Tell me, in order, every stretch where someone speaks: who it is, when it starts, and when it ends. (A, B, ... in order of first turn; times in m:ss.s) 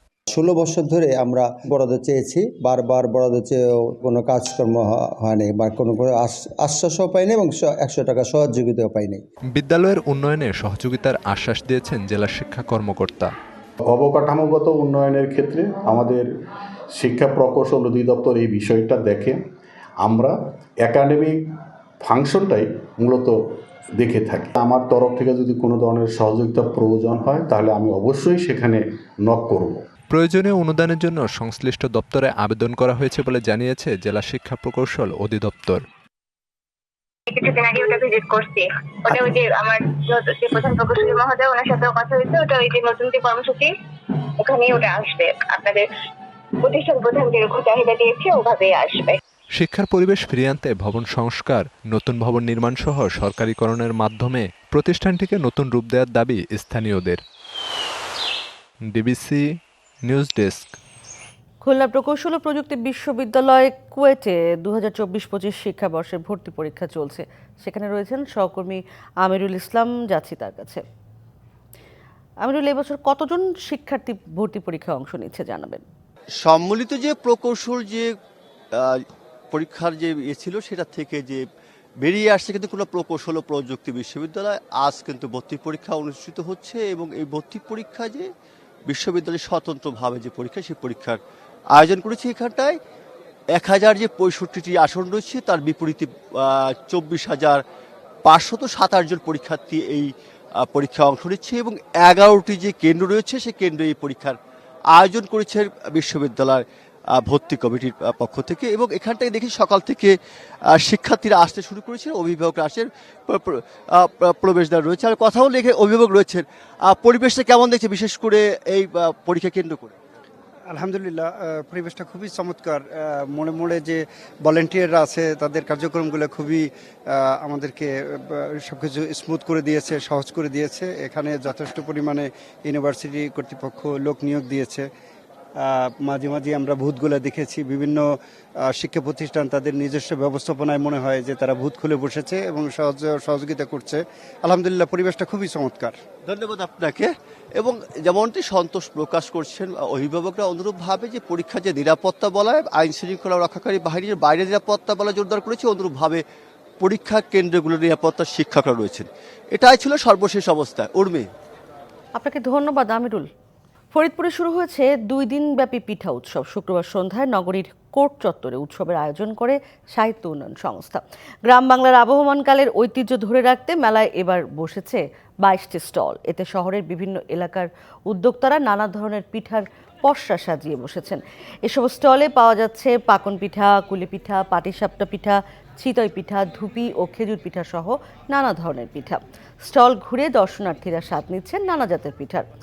0:00.3-0:09.2 A
0:09.5-0:13.3 B
0:13.9-0:16.3 C
0:16.9-0:19.4 C
0:20.0-0:21.5 C
0:22.0-0:23.4 C
0:24.0-0:29.8 C
0:30.1-0:35.8 B
0:37.3-0:43.7 D
0:44.4-0:45.8 D
0:46.6-0:49.1 D
0:49.6-0:57.2 B
0:58.9-1:00.8 B
1:01.6-1:10.8 E
1:12.4-1:15.8 E
1:16.4-1:18.2 F
1:18.7-1:21.4 F
1:22.0-1:28.3 F
1:28.9-1:31.2 F
1:31.7-1:32.8 F
1:33.5-1:37.6 F
1:38.2-1:44.4 F
1:44.9-1:50.2 F
1:50.7-2:00.0 F
2:00.7-2:14.9 G
2:15.6-2:26.0 G
2:26.3-2:36.2 F
2:36.8-2:41.3 F
2:42.2-2:43.3 E
2:43.9-3:12.5 E